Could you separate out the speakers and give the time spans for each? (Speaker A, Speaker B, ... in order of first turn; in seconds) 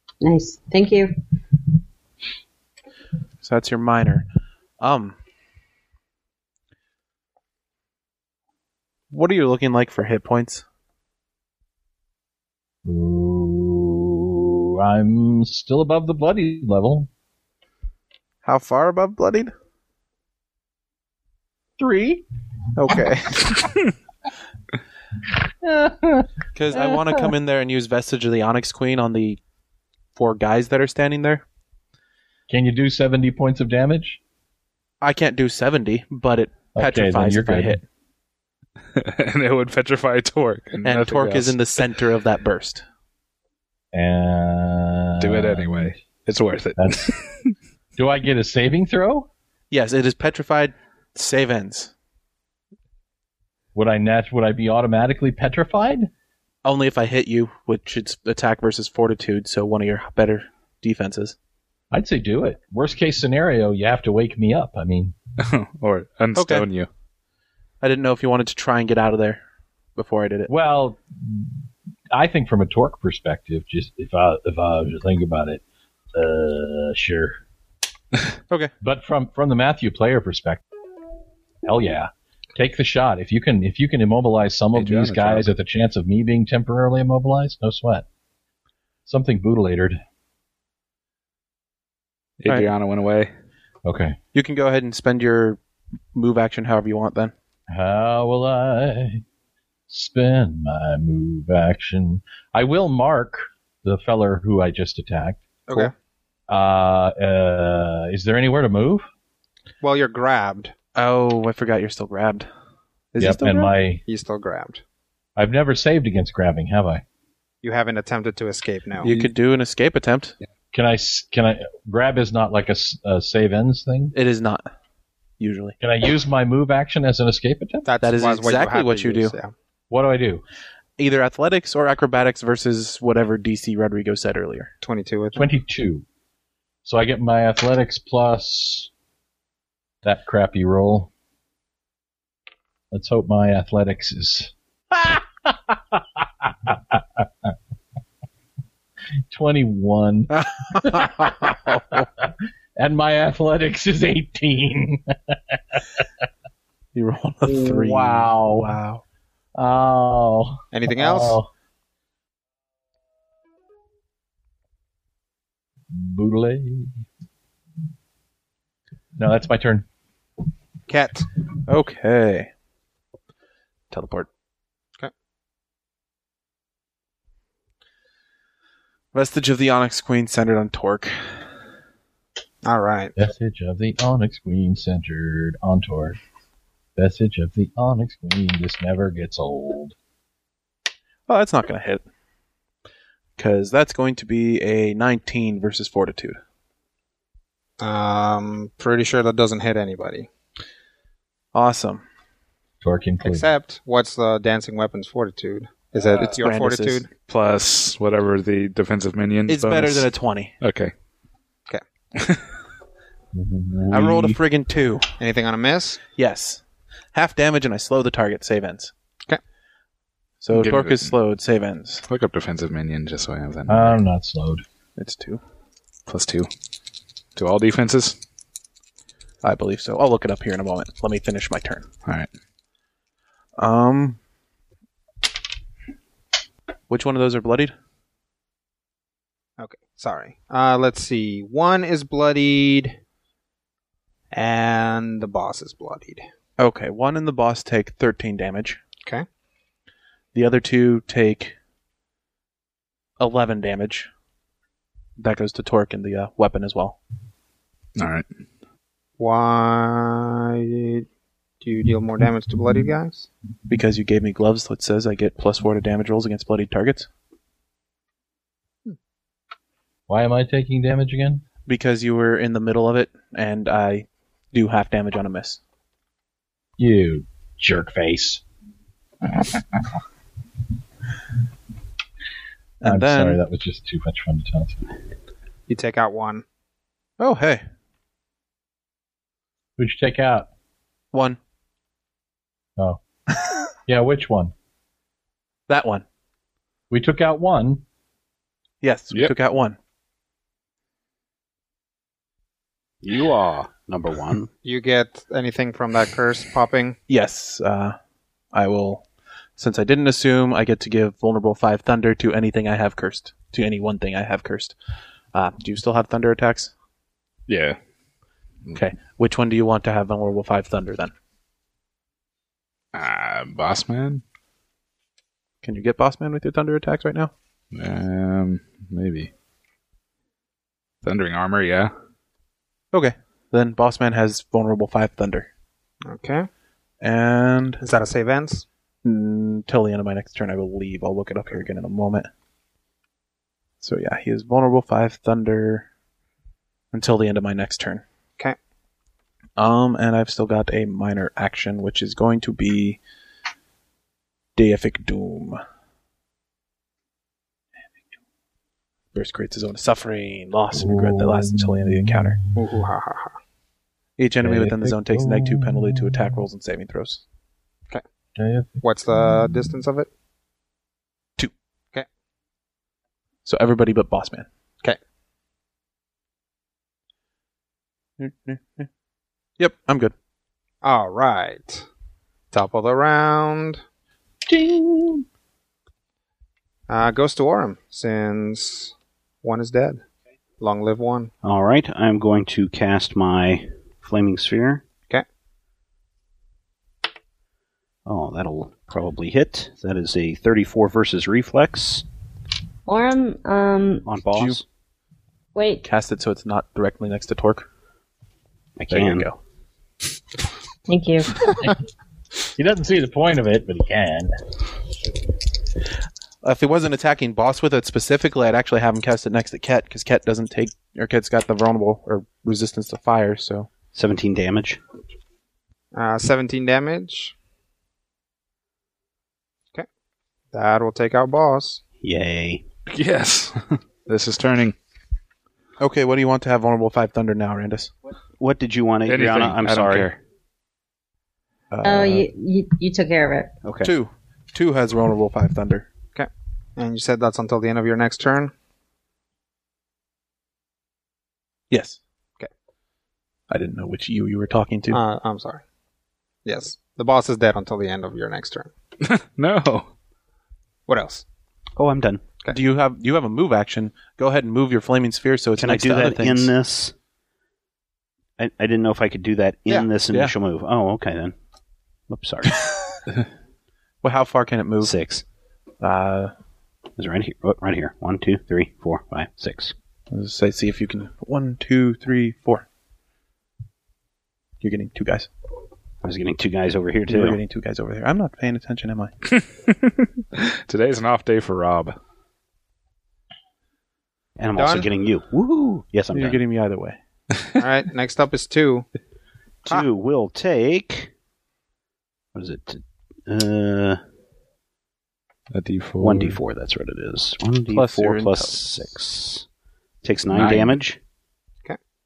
Speaker A: 0.2-1.1, 402.9-404.1, 405.5-405.8, 410.9-411.4, 441.8-443.5
Speaker B: 3.4-4.2, 4.8-5.2, 9.1-10.6, 18.4-19.5, 22.8-23.6, 26.5-29.4, 30.1-31.4, 35.0-37.8, 40.8-42.8, 49.7-51.9, 56.6-61.4, 66.3-66.7, 67.8-69.4, 70.0-70.5, 94.3-95.6, 96.1-97.3, 110.9-112.5, 113.1-113.7, 119.0-120.3, 124.1-124.7, 125.4-125.8, 128.0-129.3, 131.0-134.7, 150.7-151.3, 156.9-159.0, 171.7-172.5, 173.9-174.3, 179.1-181.5, 191.3-192.0, 193.4-196.4, 201.5-202.0, 206.2-207.0, 209.5-210.5, 213.9-215.1, 216.1-216.6, 217.1-218.9, 220.4-222.0, 224.9-225.4, 229.4-231.8, 233.6-234.2, 236.9-237.7, 246.6-248.8, 250.3-251.5, 253.2-254.1, 255.2-257.0, 263.7-267.1, 271.6-275.6, 282.8-283.4, 287.2-287.6, 291.1-291.4, 295.7-296.0, 298.8-299.8, 307.1-308.0, 308.5-309.0, 309.6-314.8, 315.3-316.7, 318.7-321.1, 325.6-327.3, 332.9-335.5, 337.0-337.8, 339.0-342.3, 343.8-345.9, 346.9-348.0, 349.6-353.0, 354.6-355.6, 359.1-362.4, 364.2-367.2, 373.4-374.5, 378.2-378.9, 379.6-380.1, 404.3-404.6, 405.8-407.6, 408.9-409.4, 416.4-423.7, 435.8-437.9, 441.7-442.2, 443.8-445.9, 451.7-452.0, 453.5-455.0, 462.5-466.5, 474.0-475.0, 475.8-476.3, 480.1-482.6, 484.6-485.3, 487.1-489.1, 496.1-497.0, 507.7-508.7
Speaker C: 12.8-17.1, 21.8-22.2, 25.6-27.3, 32.5-34.2, 36.7-37.8, 43.9-46.0, 46.8-47.1, 48.0-49.3, 53.7-56.1, 61.9-65.1, 70.5-71.5, 72.1-75.6, 76.1-77.4, 78.8-80.6, 81.6-88.0, 89.0-90.0, 93.8-94.2, 97.7-99.2, 99.9-105.9, 106.5-109.1, 113.2-114.0, 115.3-117.0, 120.7-124.2, 125.8-127.9, 129.9-130.4, 135.3-136.0, 136.8-138.9, 140.0-141.1, 142.9-147.5, 149.3-156.0, 157.4-158.7, 159.5-161.5, 165.9-166.9, 169.2-169.8, 183.2-186.2, 186.9-189.9, 202.8-203.5, 213.3-214.4, 223.7-224.6, 270.1-271.4, 276.8-278.4, 282.8-284.8, 289.8-290.5, 293.9-294.5, 296.9-297.8, 360.7-362.5, 364.4-366.4, 368.4-368.8, 384.5-385.2, 412.6-414.3
Speaker D: 39.0-41.5, 45.2-47.5, 65.4-66.9, 84.7-85.5, 92.4-93.3, 207.3-210.9, 212.2-212.4, 220.5-221.1, 222.1-224.0, 226.1-226.5, 227.3-228.2, 257.9-258.2, 317.5-317.8, 322.9-324.2, 327.7-329.3, 331.0-331.9, 432.9-434.7, 439.1-440.1, 459.0-459.9, 489.3-491.9, 505.5-506.4, 510.3-510.7
Speaker E: 109.8-110.7, 114.0-114.8, 117.6-119.1, 127.8-129.5, 134.8-135.5, 160.7-161.4, 170.9-171.3, 182.6-183.2, 197.8-200.3, 203.2-207.1, 215.2-216.0, 239.6-242.9, 244.3-246.2, 259.2-261.1, 261.6-263.3, 285.7-286.4, 304.6-307.0, 336.0-336.5, 337.8-338.6, 362.6-363.3, 368.8-370.1, 380.8-381.9, 382.5-383.8, 386.9-390.0, 390.6-391.3, 425.9-427.3, 430.5-431.8, 446.1-448.5, 454.9-455.6, 456.4-458.7, 460.9-461.2, 494.6-494.9, 497.6-498.9
Speaker F: 303.0-304.5, 391.4-394.8, 398.1-402.0, 404.1-404.6, 408.8-409.3, 423.9-424.8, 432.0-432.6, 438.4-440.2, 443.6-443.9, 461.8-462.2, 465.6-466.9, 468.4-471.4, 472.1-472.7, 474.8-475.2, 477.0-479.7, 486.0-487.4, 494.4-496.4, 499.6-501.1, 502.3-504.0, 506.0-509.4, 510.0-511.0